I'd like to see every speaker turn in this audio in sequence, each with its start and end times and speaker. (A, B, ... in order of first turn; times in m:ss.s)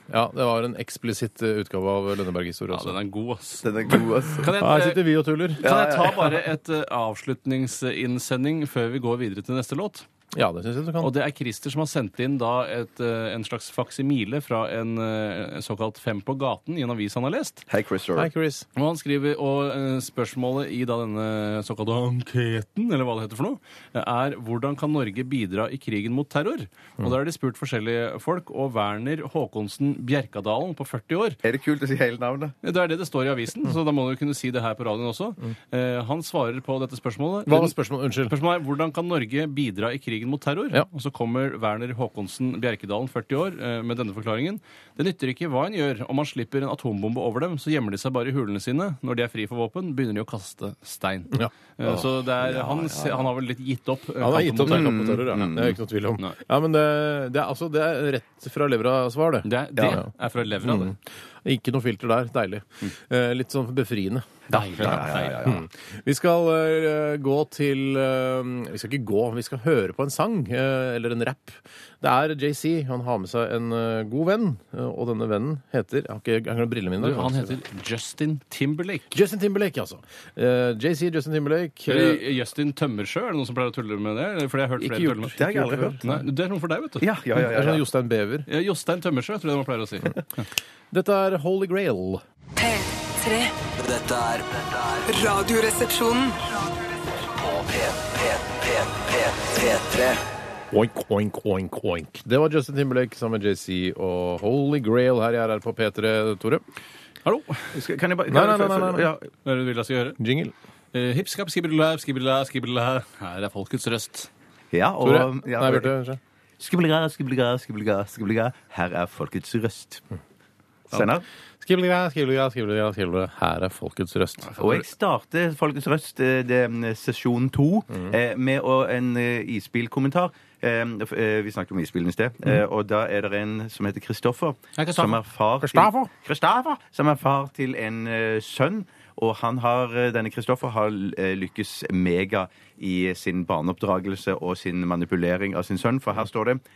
0:00.1-0:03.0 A
0:02.7-0:10.1 B
0:03.6-0:04.5 C
0:04.5-0:05.7 A
0:05.6-0:06.4 C
0:10.3-0:11.1 A
0:11.0-0:17.6 B
0:17.7-0:18.3 C
0:18.2-0:18.6 A
0:18.8-0:31.4 B
0:31.4-0:32.5 C
0:32.6-0:37.7 B
0:37.5-0:38.3 A
0:38.3-0:55.1 B
0:51.8-0:53.3 C
0:54.2-1:00.1 A
0:54.6-0:55.8 C
0:59.4-1:00.9 B
1:00.6-1:17.5 A
1:04.5-1:05.4 B
1:04.5-1:05.6 C
1:17.0-1:19.1 B
1:19.1-1:22.2 A
1:21.9-1:25.4 B
1:24.8-1:26.2 A
1:25.4-1:26.0 C
1:26.0-1:27.1 B
1:27.0-1:27.8 C
1:27.4-1:28.5 A
1:28.5-1:30.4 B
1:30.9-1:32.2 A
1:32.6-1:33.5 D
1:33.7-1:35.4 E
1:35.1-1:36.4 D
1:37.2-1:40.2 E
1:40.7-1:46.6 A
1:47.2-1:47.7 B
1:47.7-1:49.3 C
1:48.3-1:49.1 A
1:49.4-1:50.2 B
1:50.2-1:50.5 A
1:50.9-1:54.3 B
1:54.7-1:55.9 C
1:55.0-1:56.2 A
1:56.6-2:00.0 C
2:00.9-2:01.2 C
2:01.6-2:04.5 A
2:04.5-2:04.8 B
2:04.6-2:26.6 C
2:14.8-2:15.0 A
2:15.6-2:16.1 A